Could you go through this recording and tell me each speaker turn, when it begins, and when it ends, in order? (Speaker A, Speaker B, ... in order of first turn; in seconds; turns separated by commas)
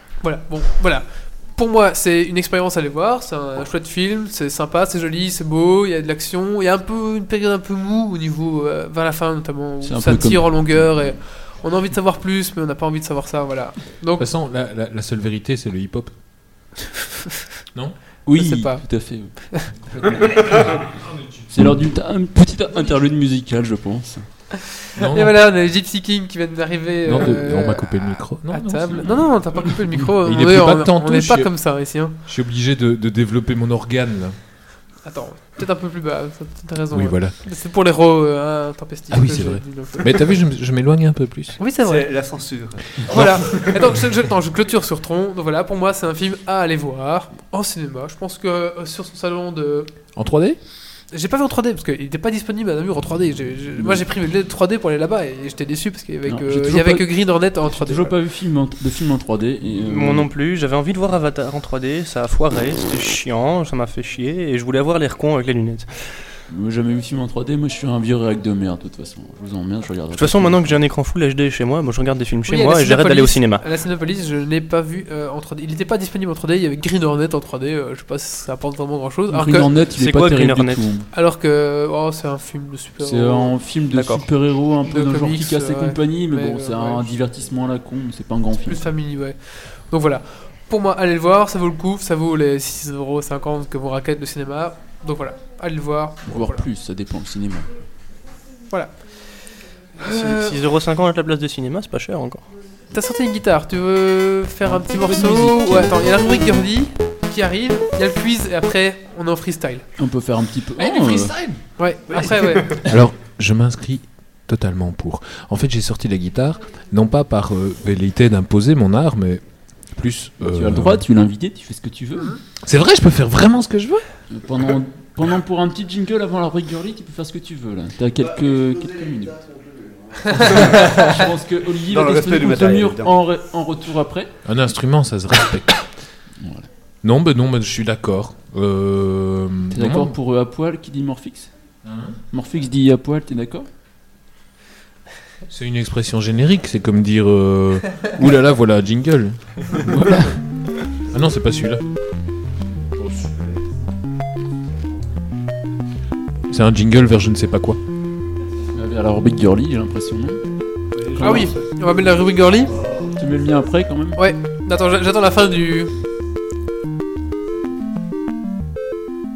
Speaker A: 0.2-14.3, Speaker B: 9.8-10.8, Speaker C: 14.2-16.1, Speaker B: 18.3-20.9, Speaker A: 18.3-19.7, Speaker C: 21.3-21.6, Speaker B: 21.5-24.3, Speaker A: 24.8-32.2, Speaker C: 25.0-25.4, Speaker C: 27.1-29.2, Speaker C: 30.2-31.5, Speaker C: 32.3-34.4, Speaker A: 35.0-40.3, Speaker C: 36.9-37.3, Speaker C: 39.1-41.6, Speaker A: 41.6-42.1, Speaker D: 41.8-43.6, Speaker A: 43.1-49.9, Speaker C: 43.1-43.6, Speaker C: 50.1-50.6, Speaker A: 51.1-58.1, Speaker B: 56.3-60.3, Speaker E: 59.8-66.0, Speaker B: 66.5-70.8, Speaker E: 70.1-73.6, Speaker A: 72.5-79.7, Speaker B: 79.3-81.0, Speaker E: 80.0-80.8, Speaker A: 81.1-83.5, Speaker B: 83.0-88.8, Speaker E: 83.9-84.2, Speaker A: 84.8-87.1, Speaker A: 88.6-96.6, Speaker B: 96.3-97.7, Speaker A: 98.7-99.0, Speaker A: 100.0-100.6, Speaker E: 100.0-102.4, Speaker A: 102.9-109.8, Speaker B: 104.7-106.1, Speaker B: 110.0-111.3, Speaker C: 110.8-111.6, Speaker A: 111.8-112.8, Speaker D: 112.1-112.6, Speaker C: 112.8-121.0, Speaker B: 120.5-122.4, Speaker C: 122.6-124.0, Speaker B: 124.3-129.5, Speaker B: 130.3-134.3, Speaker D: 131.9-133.2, Speaker C: 134.4-135.8, Speaker B: 136.4-136.7, Speaker C: 137.0-140.1, Speaker B: 139.7-141.5, Speaker C: 141.8-142.2, Speaker B: 142.3-143.7, Speaker C: 145.5-149.8, Speaker B: 149.8-150.3, Speaker C: 151.1-151.8, Speaker C: 156.5-157.8, Speaker B: 158.7-160.4, Speaker D: 160.9-161.5, Speaker B: 161.1-161.6, Speaker A: 161.2-162.7, Speaker B: 163.2-164.2, Speaker A: 164.2-165.9